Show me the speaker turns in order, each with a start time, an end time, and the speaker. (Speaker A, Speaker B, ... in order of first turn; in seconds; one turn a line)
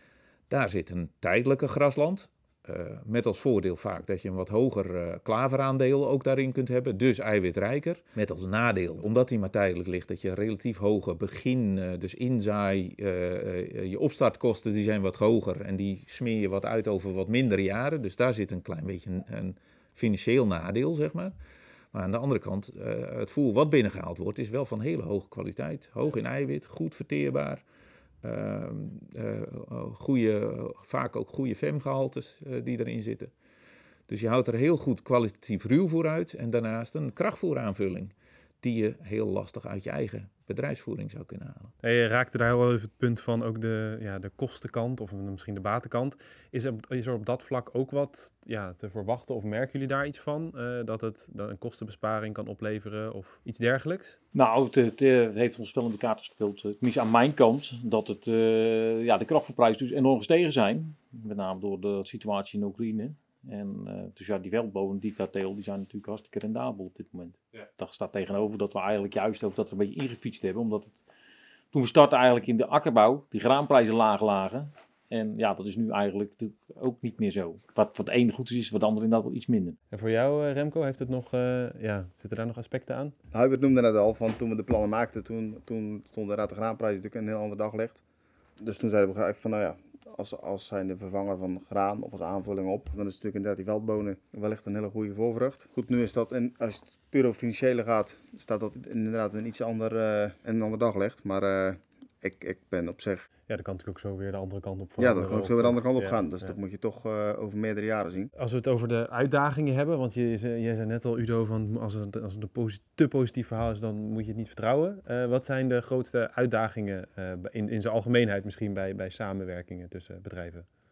Speaker A: 0.5-21.3
Speaker A: 21.9-27.6
Speaker A: 28.2-33.3
Speaker A: 34.1-41.7
Speaker B: 41.8-54.2
Speaker C: 54.3-71.0
Speaker C: 71.7-79.8
Speaker B: 79.9-83.2
Speaker D: 83.3-88.0
Speaker D: 88.6-103.3
Speaker B: 103.5-106.6
Speaker D: 105.0-108.3
Speaker B: 108.4-120.7